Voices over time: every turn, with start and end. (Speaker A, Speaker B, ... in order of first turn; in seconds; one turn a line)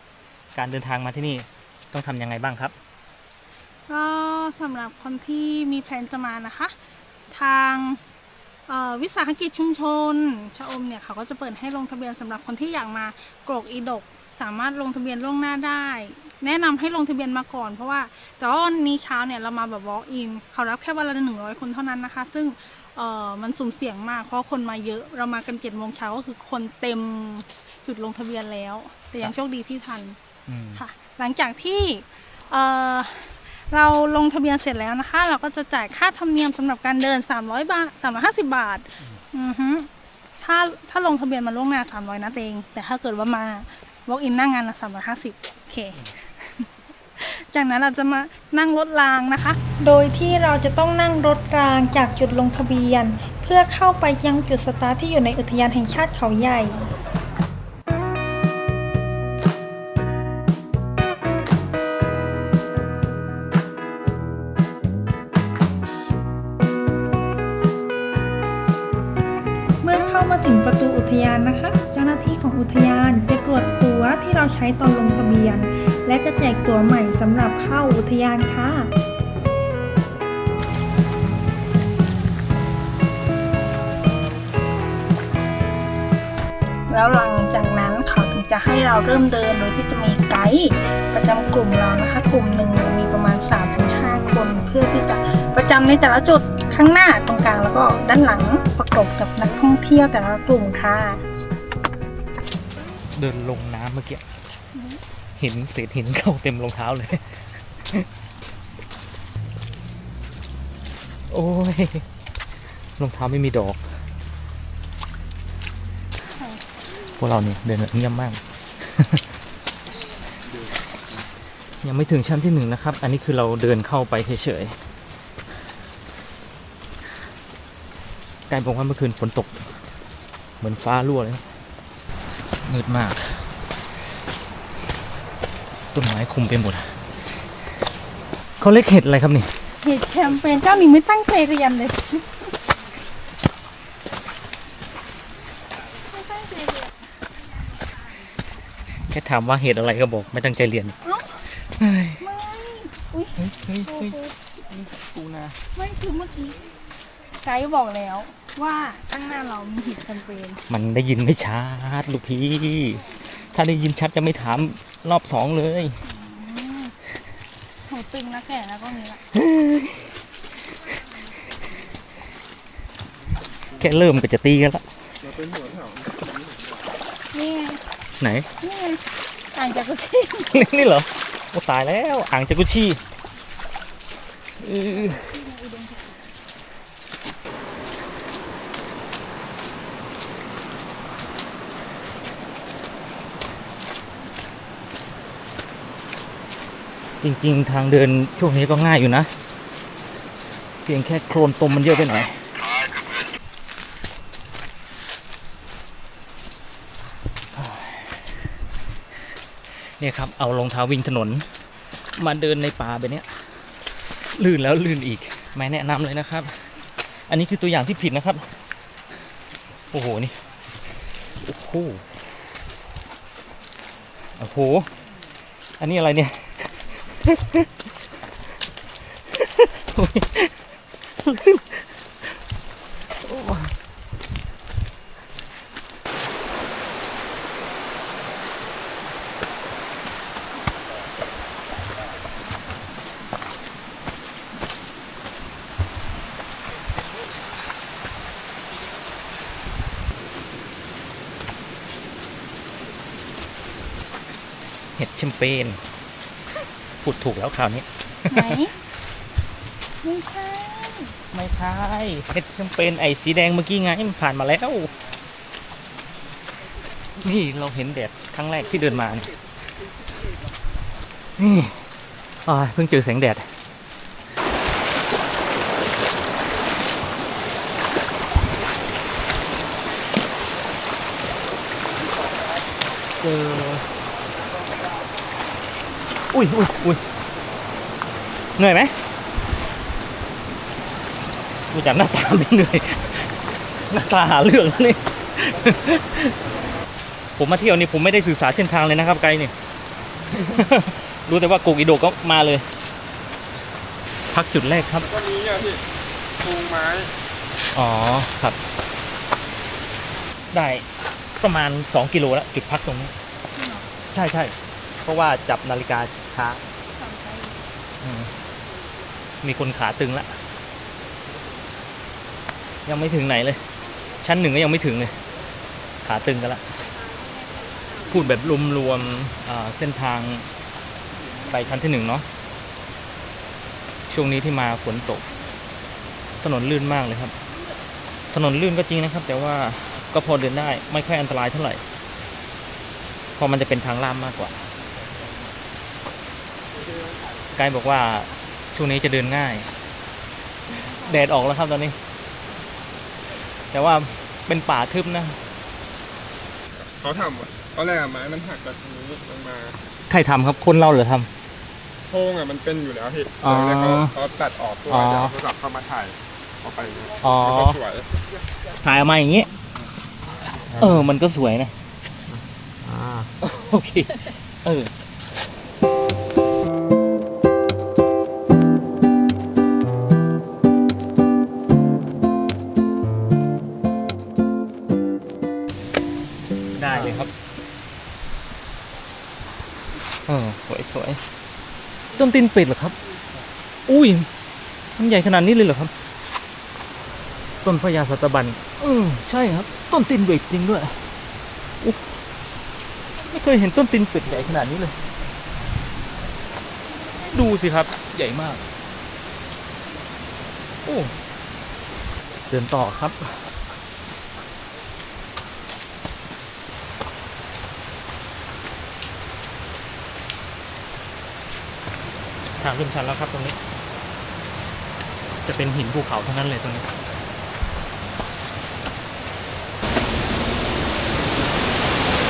Speaker A: 0.5-2.7
Speaker B: 3.9-6.7
Speaker B: 7.3-8.0
Speaker B: 8.7-30.2
Speaker A: 30.5-30.8
Speaker B: 30.8-39.9
Speaker B: 40.4-56.9
Speaker B: 69.8-78.9
Speaker B: 86.9-101.2
Speaker A: 103.1-104.2
Speaker B: 104.7-105.0
Speaker A: 105.4-108.0
Speaker A: 111.3-112.0
Speaker A: 113.0-113.8
Speaker B: 116.3-116.6
Speaker A: 117.2-119.2
Speaker A: 121.8-124.8
Speaker A: 128.5-129.6
Speaker A: 130.6-131.4
Speaker A: 132.6-133.4
Speaker A: 135.9-136.9
Speaker A: 138.6-139.5
Speaker B: 139.8-142.5
Speaker B: 146.1-147.0
Speaker A: 149.1-150.9
Speaker A: 151.8-152.2
Speaker B: 152.2-154.3
Speaker A: 153.4-154.2
Speaker A: 154.7-155.6
Speaker B: 155.7-156.6
Speaker B: 157.4-160.6
Speaker A: 160.7-166.0
Speaker B: 166.1-166.9
Speaker B: 167.9-169.2
Speaker A: 169.3-170.1
Speaker A: 173.8-174.8
Speaker C: 175.2-176.9
Speaker B: 177.3-177.8
Speaker A: 178.2-178.5
Speaker B: 178.6-180.6
Speaker A: 180.5-183.0
Speaker A: 184.6-185.2
Speaker B: 184.8-186.2
Speaker A: 197.2-199.3
Speaker A: 200.8-202.4
Speaker A: 207.5-208.3
Speaker A: 210.0-211.5
Speaker A: 212.1-213.6
Speaker A: 214.3-216.6
Speaker A: 217.1-218.5
Speaker A: 219.9-220.3
Speaker A: 221.4-222.0
Speaker A: 224.4-224.9
Speaker A: 225.8-227.7
Speaker A: 229.3-230.5
Speaker A: 231.2-231.8
Speaker A: 233.1-233.7
Speaker A: 255.0-255.8
Speaker A: 257.0-258.5
Speaker B: 258.3-258.7
Speaker B: 260.0-261.1
Speaker A: 261.3-264.9
Speaker A: 267.2-269.3
Speaker A: 271.4-271.8
Speaker A: 272.4-273.5
Speaker A: 283.2-283.8
Speaker A: 286.3-287.0
Speaker A: 288.6-288.9
Speaker A: 291.7-293.3
Speaker A: 293.9-296.3
Speaker A: 297.4-299.5
Speaker A: 300.3-302.6
Speaker A: 304.3-305.1
Speaker C: 305.0-305.8
Speaker C: 306.4-307.1
Speaker A: 307.7-308.6
Speaker A: 310.5-310.8
Speaker A: 311.4-313.1
Speaker B: 313.5-313.9
Speaker A: 314.1-316.6
Speaker B: 317.0-317.6
Speaker A: 318.0-318.3
Speaker A: 319.4-320.4
Speaker A: 322.9-323.6
Speaker A: 324.2-325.1
Speaker A: 326.0-326.6
Speaker A: 328.1-330.4
Speaker A: 331.5-332.2
Speaker A: 334.1-335.2
Speaker A: 336.4-337.3
Speaker A: 338.3-341.8
Speaker A: 343.4-344.5
Speaker A: 347.5-349.7
Speaker B: 350.8-351.2
Speaker A: 351.0-351.9
Speaker A: 353.7-355.4
Speaker C: 356.8-359.8
Speaker A: 360.1-361.3
Speaker C: 362.1-368.1
Speaker A: 363.4-364.1
Speaker A: 364.9-365.3
Speaker A: 367.2-367.8
Speaker A: 368.8-369.5
Speaker A: 370.7-371.7
Speaker A: 372.8-374.9
Speaker A: 386.8-387.3
Speaker A: 390.3-391.2
Speaker A: 392.1-392.9
Speaker A: 393.9-394.3
Speaker A: 395.0-395.9
Speaker A: 397.6-401.0
Speaker A: 403.2-404.9
Speaker A: 407.3-408.6
Speaker A: 410.8-411.1
Speaker A: 412.5-413.3
Speaker A: 422.6-423.6
Speaker A: 425.4-426.9